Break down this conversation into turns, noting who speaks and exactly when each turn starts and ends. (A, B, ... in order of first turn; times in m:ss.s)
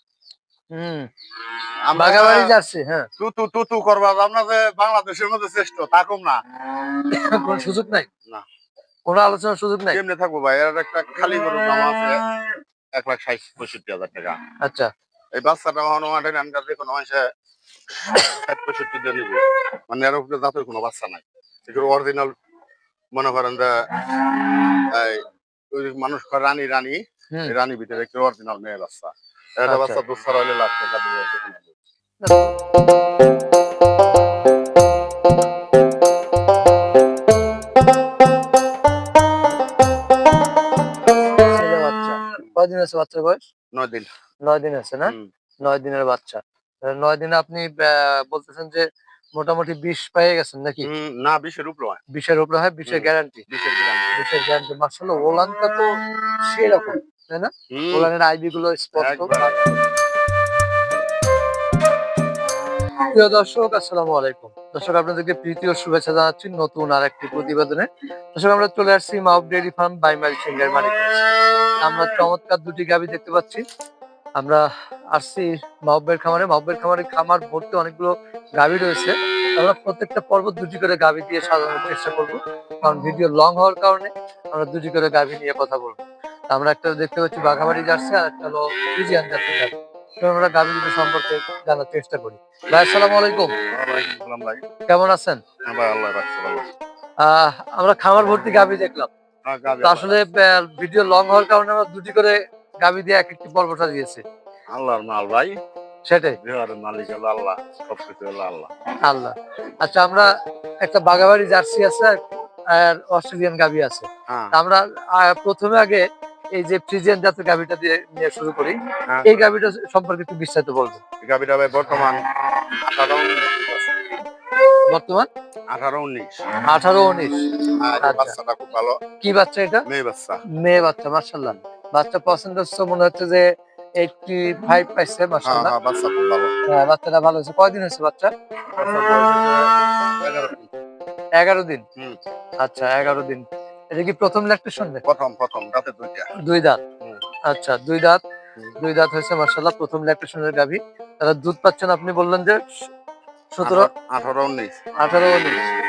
0:00.7-0:01.1 A
0:01.8-0:02.5 B
0:02.0-0:03.1 A
0:03.2-0:06.4 B
0:07.1-0:08.1 A
0:09.1-0:10.0 A
0:09.9-0:12.2 B
0:13.0-0:14.3 B
0:14.6-0:14.9 A
0:15.4-0:17.2 B
0:18.1-0:22.3 B
0:23.1-0:23.7 B
0:24.9-0:31.7 B
0:29.7-0:30.0 A
0:32.2-0:32.5 A
0:41.5-0:43.4 A
0:43.7-0:44.1 B
0:44.4-0:45.1 A
0:45.0-0:45.3 B
0:45.6-0:48.8 A
0:49.4-0:50.9 A
0:50.8-0:52.0 B
0:52.1-0:53.4 A
0:52.9-0:54.2 B
0:54.2-0:55.9 A
0:56.4-0:59.6 A
0:57.7-0:58.1 B
0:59.0-0:59.9 B
1:03.1-1:11.2 A
1:11.8-1:13.6 A
1:14.4-1:33.5 A
1:33.7-1:34.6 B
1:34.9-1:35.4 A
1:35.6-1:36.6 B
1:37.2-1:39.1 A
1:39.4-1:40.2 B
1:39.8-1:44.2 A
1:44.7-1:45.6 B
1:46.0-1:46.4 A
1:46.4-1:48.7 B
1:49.0-1:50.3 A
1:50.8-1:52.2 A
1:52.7-1:56.0 A
1:54.3-1:54.5 B
1:56.5-2:01.0 A
1:59.1-1:59.5 B
2:01.2-2:02.2 B
2:02.8-2:04.0 B
2:04.9-2:05.3 A
2:05.7-2:06.4 B
2:06.6-2:07.5 A
2:07.8-2:09.0 B
2:08.0-2:08.3 A
2:09.2-2:09.8 A
2:09.9-2:10.4 B
2:10.6-2:13.4 A
2:14.0-2:15.7 A
2:15.4-2:16.5 B
2:16.7-2:18.3 A
2:18.7-2:19.7 B
2:20.2-2:20.7 B
2:21.4-2:21.8 A
2:22.6-2:25.0 A
2:25.0-2:26.3 B
2:26.4-2:26.8 A
2:27.5-2:28.2 A
2:28.8-2:32.6 A
2:33.5-2:33.9 A
2:33.6-2:34.7 B
2:35.0-2:35.6 A